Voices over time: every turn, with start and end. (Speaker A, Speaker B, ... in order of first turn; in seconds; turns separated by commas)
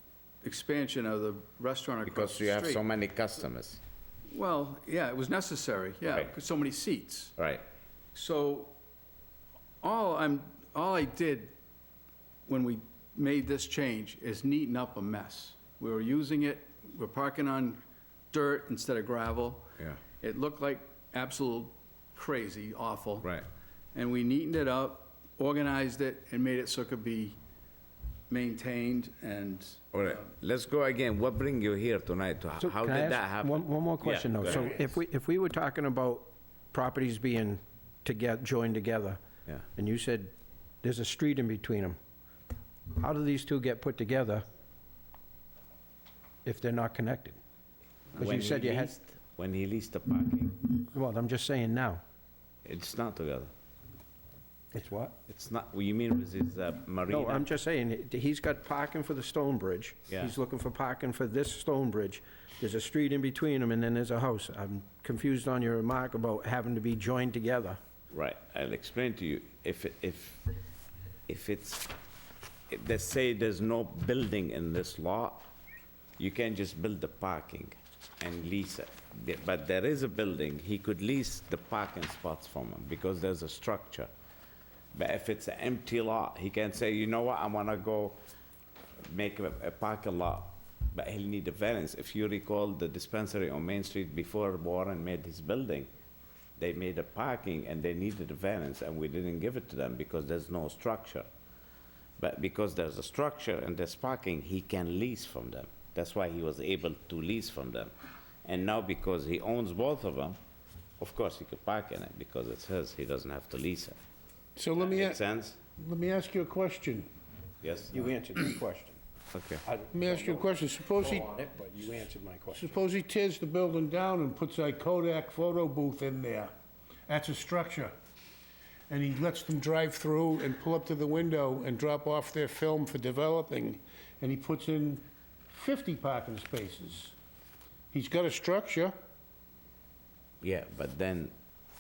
Speaker A: 0.4-2.8, Speaker B: 2.1-3.8, Speaker A: 4.3-7.3, Speaker B: 7.4-7.6, Speaker A: 8.1-8.7, Speaker A: 9.8-11.5, Speaker A: 12.5-19.7, Speaker A: 20.2-23.3, Speaker A: 23.9-27.4, Speaker A: 28.3-29.8, Speaker B: 29.9-34.9, Speaker C: 32.6-39.2, Speaker C: 39.8-42.0, Speaker C: 42.9-44.5, Speaker C: 46.4-47.4, Speaker C: 48.2-48.9, Speaker B: 48.2-50.7, Speaker C: 50.8-52.0, Speaker B: 52.6-53.5, Speaker C: 54.7-55.2, Speaker B: 55.3-57.5, Speaker C: 57.1-67.8, Speaker B: 60.1-60.4, Speaker B: 68.1-70.5, Speaker B: 71.3-71.9, Speaker B: 72.7-75.5, Speaker B: 76.2-84.1, Speaker B: 85.0-88.2, Speaker B: 89.1-95.9, Speaker B: 96.6-101.3, Speaker B: 102.2-107.9, Speaker B: 108.5-110.4, Speaker B: 111.0-114.0, Speaker D: 114.6-115.2, Speaker B: 114.8-115.6, Speaker D: 115.8-117.1, Speaker B: 117.6-118.0, Speaker C: 117.9-119.0, Speaker B: 119.3-119.6, Speaker C: 119.7-122.8, Speaker D: 119.9-121.3, Speaker D: 122.5-126.5, Speaker D: 127.1-127.9, Speaker D: 128.9-137.2, Speaker D: 137.9-138.9, Speaker B: 140.4-141.3